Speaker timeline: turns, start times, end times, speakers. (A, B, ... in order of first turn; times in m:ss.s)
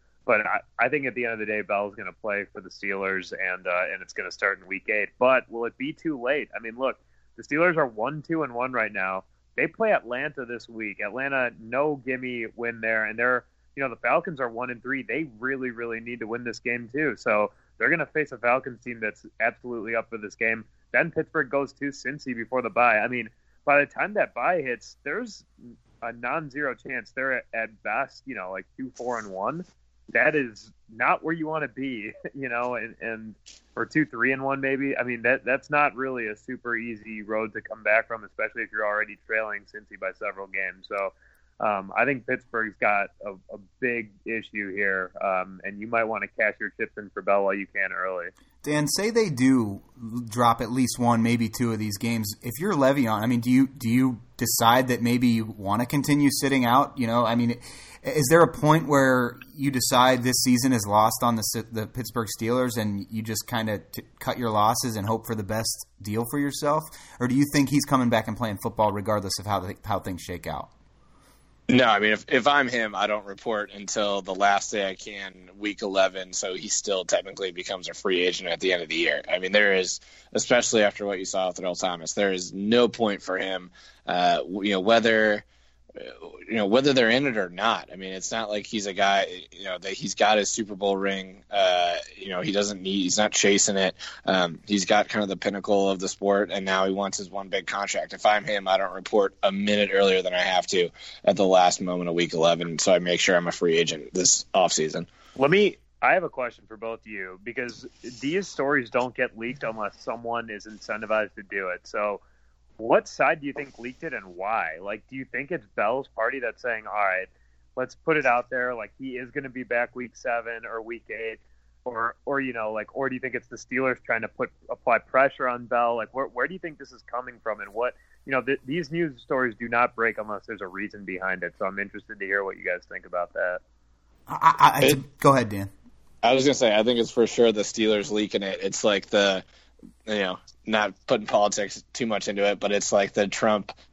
0:00.2-0:25.5 A
0:26.0-0:48.3 A
0:48.6-1:10.7 B
1:11.7-1:25.4 C
1:26.0-1:45.1 C
1:45.4-1:52.2 A
1:52.8-2:13.6 A
2:14.3-2:15.7 B
2:16.2-2:19.4 C
2:20.0-2:23.7 C